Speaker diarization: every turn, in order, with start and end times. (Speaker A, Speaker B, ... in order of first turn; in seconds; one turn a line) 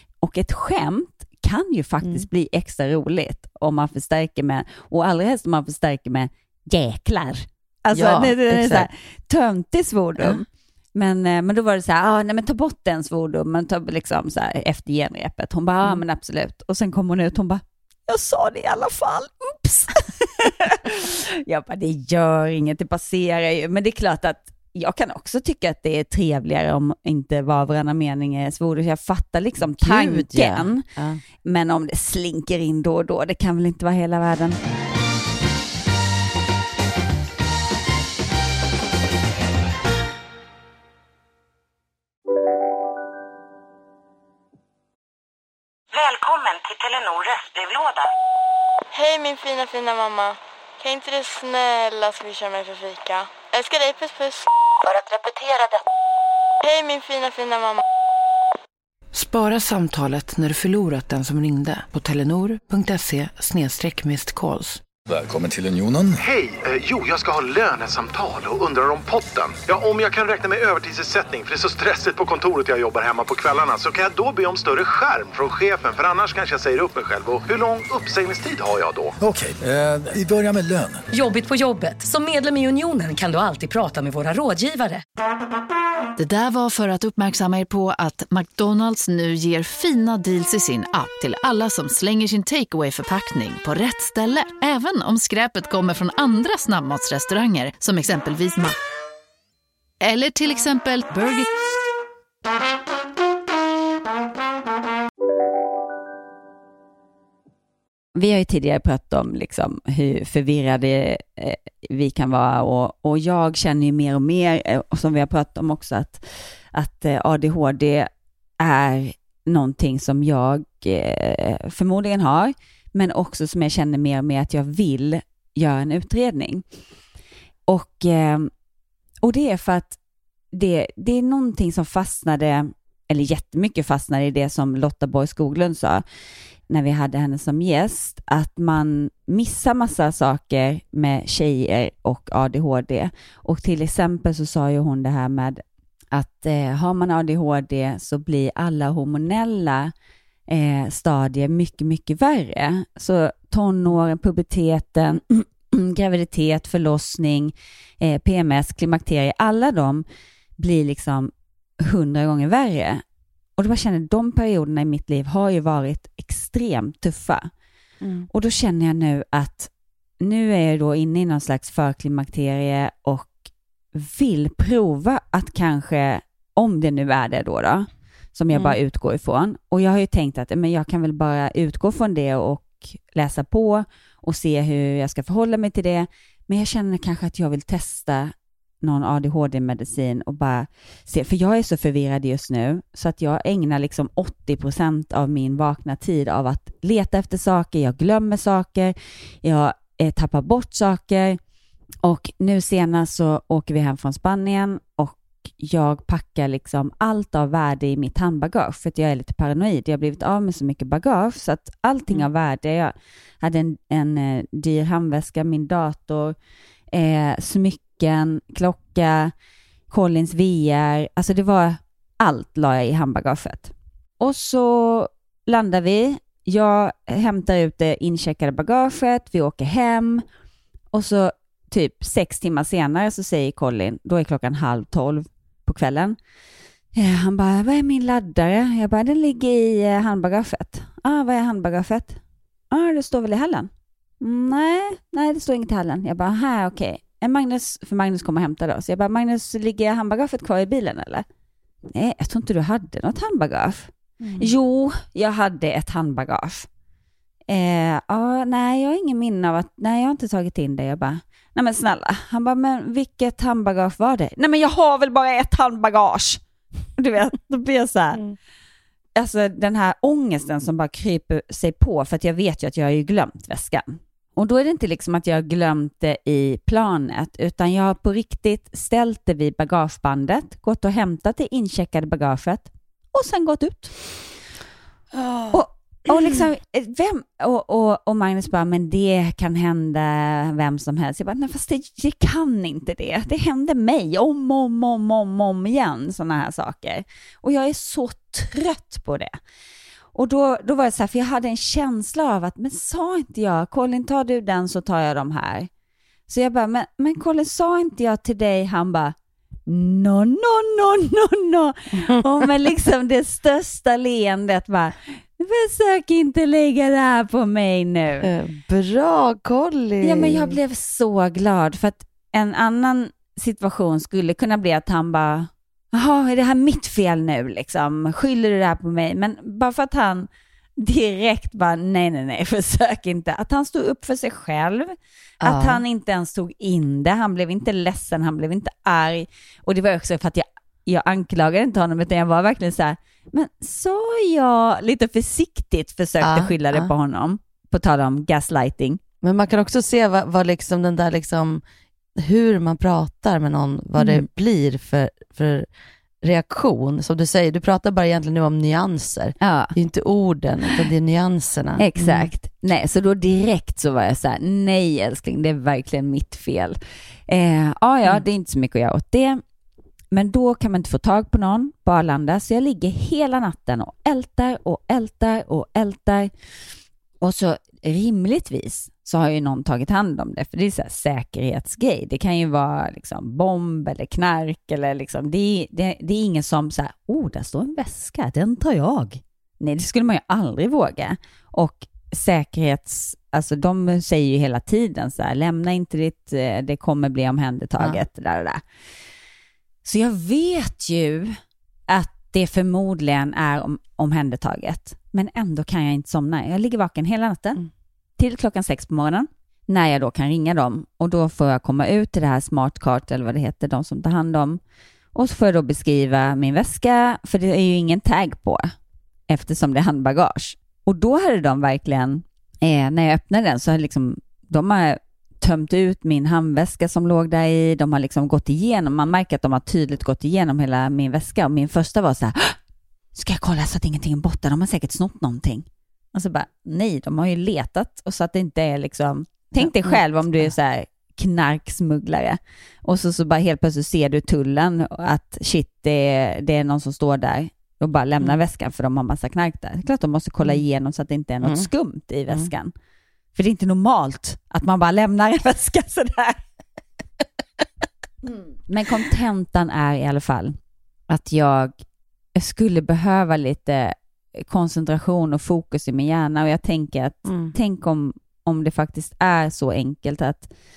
Speaker A: 0.2-30.9
Speaker B: 2.0-2.3
Speaker B: 7.9-8.9
Speaker B: 29.7-31.2
Speaker A: 31.4-34.6
Speaker C: 45.9-48.1
Speaker D: 48.9-54.4
Speaker C: 54.8-55.8
Speaker D: 56.6-57.8
Speaker E: 59.1-64.8
Speaker F: 65.0-66.2
Speaker G: 66.2-79.1
Speaker F: 79.2-81.0
Speaker H: 81.1-85.0
Speaker I: 86.2-98.8
Speaker I: 100.0-101.5
Speaker A: 108.1-126.6
Speaker A: 127.7-128.5
Speaker A: 129.2-130.0
Speaker A: 130.5-136.0
Speaker A: 136.7-149.9
Speaker A: 150.5-160.0
Speaker A: 160.6-163.0
Speaker A: 163.6-167.5
Speaker B: 168.0-168.3
Speaker A: 168.3-169.7
Speaker A: 170.2-173.4
Speaker A: 173.9-201.4
Speaker A: 202.0-216.3
Speaker A: 216.9-219.3
Speaker A: 219.9-230.2
Speaker A: 230.9-236.2
Speaker A: 236.9-242.2
Speaker A: 242.7-243.7
Speaker A: 244.2-251.2
Speaker A: 251.9-256.7
Speaker B: 254.2-254.5
Speaker A: 257.5-266.4
Speaker A: 267.0-268.2
Speaker A: 269.1-283.9
Speaker B: 285.1-286.4
Speaker A: 285.5-299.4
Speaker A: 300.1-305.7
Speaker A: 306.3-309.1
Speaker A: 309.7-318.3
Speaker B: 312.0-312.5
Speaker B: 318.2-320.6
Speaker A: 320.0-349.0
Speaker B: 335.4-335.8
Speaker B: 346.2-346.9
Speaker B: 349.2-351.6
Speaker B: 352.1-355.7
Speaker A: 354.0-354.2
Speaker B: 356.2-362.3
Speaker A: 359.4-359.7
Speaker A: 361.8-369.4
Speaker A: 370.1-376.3
Speaker A: 377.2-398.6
Speaker A: 399.8-407.6
Speaker A: 408.2-414.6
Speaker A: 415.1-418.7
Speaker A: 419.3-432.6
Speaker A: 433.1-452.7
Speaker B: 439.5-440.5
Speaker B: 451.4-451.7
Speaker A: 453.3-456.4
Speaker A: 458.7-460.6
Speaker A: 461.1-461.8
Speaker A: 462.3-470.5
Speaker B: 467.2-467.5